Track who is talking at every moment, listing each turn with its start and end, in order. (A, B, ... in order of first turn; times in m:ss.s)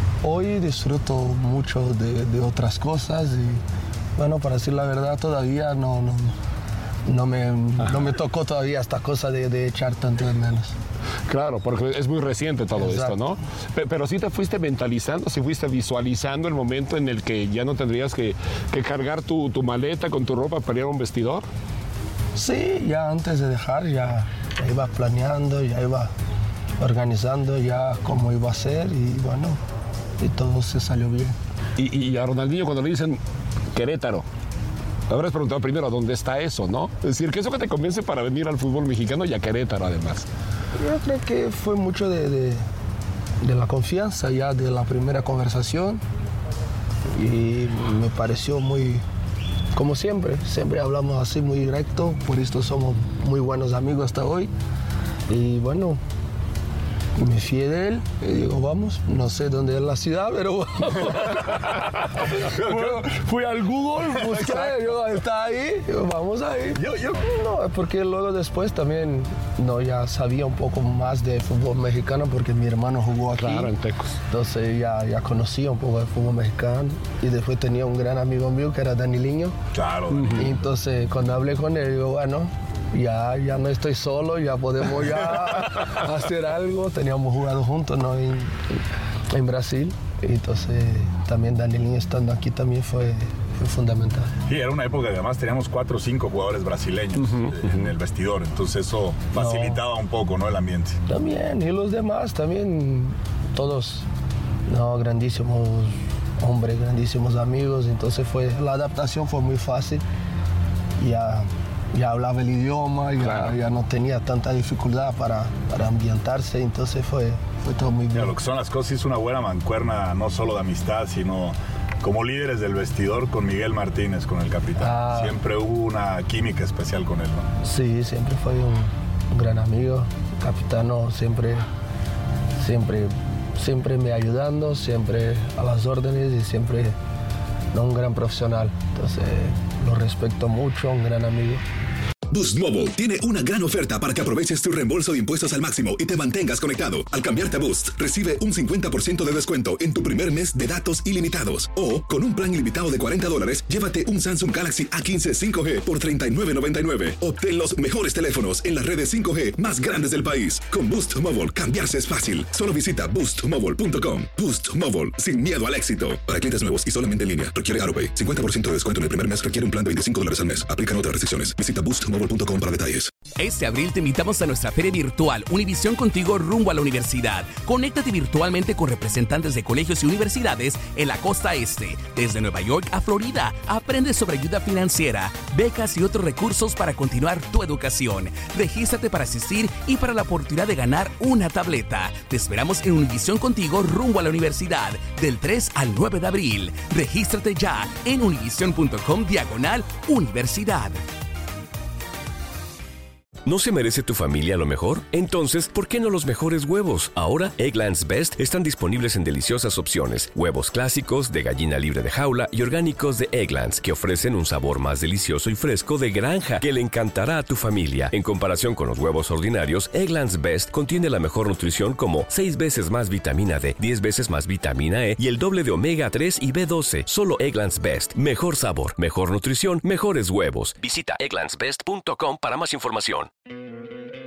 0:00.2-0:03.6 A
0:04.2-0:06.4 A
0:07.0-0:10.7 A
0:07.8-0:08.1 B
0:11.3-0:21.4 B
0:12.7-0:13.2 A
0:22.3-0:26.1 A
0:26.8-0:29.6 A
0:30.2-0:31.4 A
0:31.8-0:33.2 B
0:33.7-0:34.2 B
0:35.1-0:40.3 B
0:40.8-0:42.6 A
0:43.4-0:46.0 A
0:47.1-0:49.0 A
0:49.7-0:54.5 A
0:55.3-0:56.0 A
0:57.2-1:13.7 A
1:06.8-1:07.1 C
1:13.3-1:14.1 B
1:14.3-1:19.6 A
1:19.7-1:20.5 C
1:20.1-1:20.5 B
1:20.3-1:28.6 A
1:29.3-1:34.3 A
1:34.5-1:41.0 C
1:39.3-1:39.8 A
1:41.1-1:44.0 A
1:44.7-1:50.0 A
1:51.0-1:58.3 A
1:53.2-1:53.5 B
1:58.1-2:07.4 C
2:04.8-2:05.4 A
2:07.6-2:11.6 A
2:12.6-2:16.9 A
2:17.7-2:21.6 A
2:22.3-2:53.1 D
2:53.4-3:21.0 E
3:23.4-3:53.3 F